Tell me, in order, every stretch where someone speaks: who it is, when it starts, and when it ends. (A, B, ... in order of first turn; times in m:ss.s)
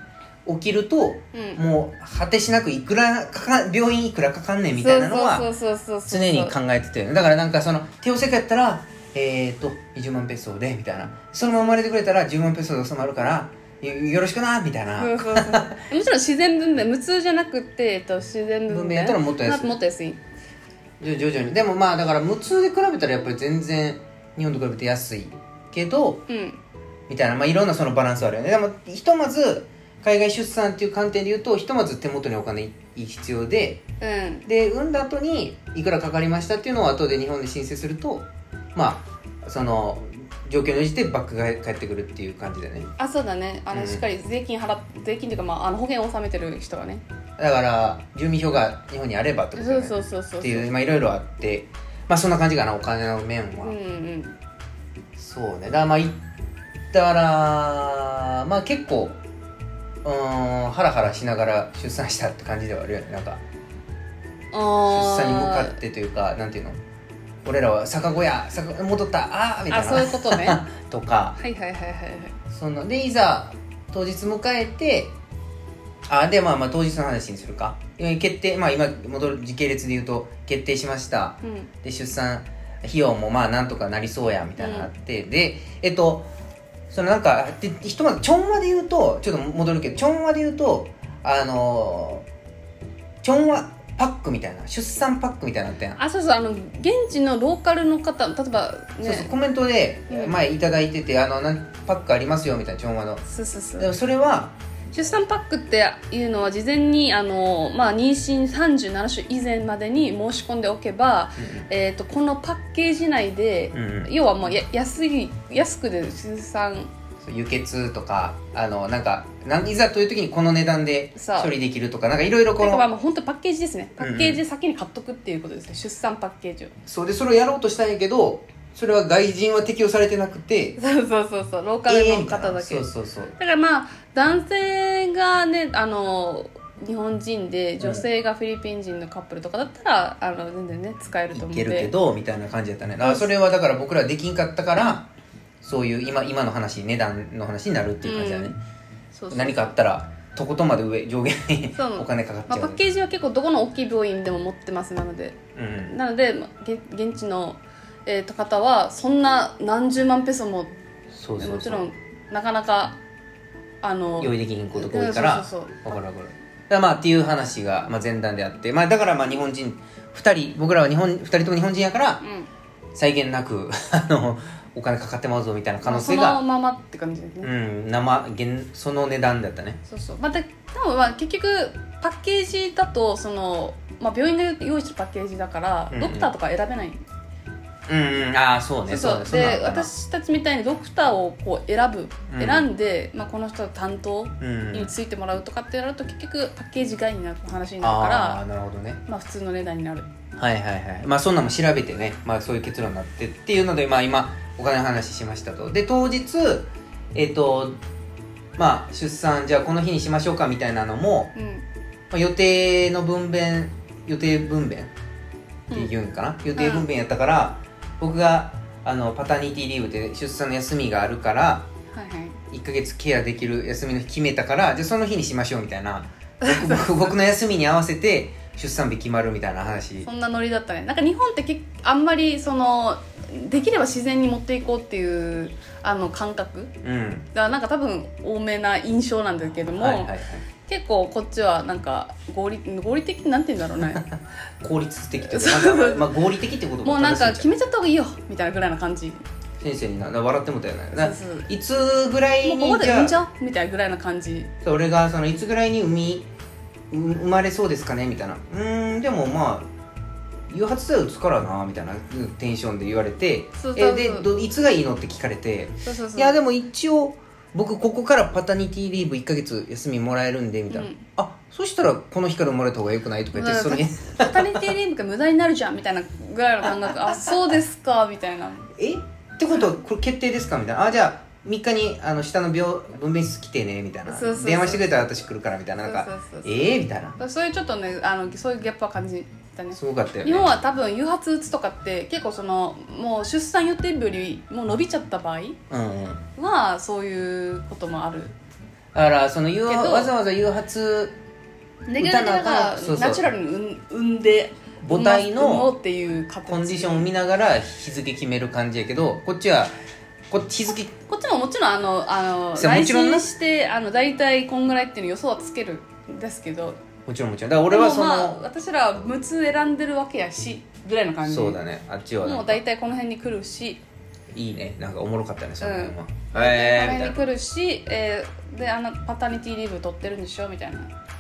0:00.5-0:05.5 A
0:01.3-0:01.6 B
0:04.8-0:06.6 B
0:06.1-0:15.8 A
0:15.0-0:20.2 B
0:18.7-0:19.7 A
0:21.0-0:26.2 A
0:26.3-0:26.6 B
0:27.1-0:33.8 A
0:34.0-0:34.5 B
0:34.5-0:42.9 A
0:43.0-0:47.0 B
0:43.7-0:44.1 A
0:47.4-0:53.8 A
0:49.6-0:50.7 B
0:53.6-0:54.4 B
0:55.2-0:56.2 A
0:56.9-0:59.2 A
1:00.0-1:03.4 A
1:04.5-1:05.8 B
1:04.8-1:06.8 A
1:07.4-1:11.4 A
1:09.7-1:10.6 B
1:11.4-1:12.4 B
1:12.5-1:15.1 A
1:16.1-1:26.3 A
1:21.4-1:21.7 B
1:24.6-1:24.9 B
1:26.9-1:32.3 A
1:33.2-1:36.0 A
1:36.0-1:39.3 B
1:39.0-1:43.2 A
1:40.1-1:40.4 B
1:43.3-1:43.9 B
1:43.8-1:44.6 A
1:44.9-1:56.9 B
1:51.4-1:51.7 A
1:53.7-1:54.1 A
1:57.2-2:02.9 A
2:01.2-2:01.5 B
2:02.6-2:06.7 B
2:04.0-2:04.4 A
2:06.9-2:10.8 A
2:10.8-2:21.9 B
2:11.9-2:13.4 A
2:17.8-2:18.1 A
2:21.3-2:25.1 A
2:23.0-2:23.3 B
2:25.6-2:28.6 A
2:28.0-2:28.6 B
2:29.1-2:29.8 B
2:29.3-2:32.8 A
2:31.8-2:40.7 B
2:35.6-2:36.0 A
2:41.1-2:41.9 A
2:41.4-2:43.0 B
2:43.8-2:46.0 B
2:44.2-2:52.2 A
2:52.2-2:52.5 B
2:53.0-2:56.4 A
2:55.8-2:57.5 B
2:57.4-2:59.8 A
2:59.9-3:07.0 B
3:05.9-3:06.3 A
3:07.9-3:09.9 A
3:08.9-3:18.4 B
3:12.3-3:12.7 A
3:14.4-3:15.0 A
3:17.8-3:19.0 A
3:19.1-3:20.1 B
3:20.4-3:27.8 A
3:28.6-3:31.3 A
3:31.4-3:31.6 B
3:32.1-3:34.9 A
3:35.7-3:41.7 A
3:36.6-3:36.9 B
3:41.9-3:42.4 B
3:42.5-3:50.1 A
3:46.4-3:47.1 B
3:50.0-3:56.7 B
3:56.8-3:57.3 A
3:57.3-4:00.1 B
3:59.7-4:00.4 A
4:00.7-4:04.0 B
4:04.6-4:07.5 A
4:05.2-4:06.1 B
4:06.8-4:09.2 B
4:09.6-4:13.2 A
4:10.9-4:11.5 B
4:12.4-4:14.5 B
4:14.6-4:16.3 A
4:16.9-4:19.7 A
4:20.5-4:34.5 A
4:23.6-4:24.3 B
4:25.8-4:26.4 B
4:30.7-4:31.0 B
4:33.3-4:38.7 B
4:38.8-4:47.2 A
4:44.1-4:45.0 B
4:45.8-4:55.6 B
4:49.7-4:50.6 A
4:55.7-4:56.2 A
4:56.4-4:58.3 B
4:58.9-5:01.2 A
4:59.7-5:00.1 B
5:01.9-5:07.1 B
5:02.0-5:03.3 A
5:04.8-5:05.7 A
5:06.5-5:09.7 A
5:10.3-5:10.9 A
5:11.1-5:16.8 B
5:12.6-5:13.3 A
5:17.1-5:18.4 A
5:17.7-5:21.6 B
5:21.2-5:22.6 A
5:22.2-5:23.8 B
5:24.3-5:27.2 A
5:25.6-5:30.9 B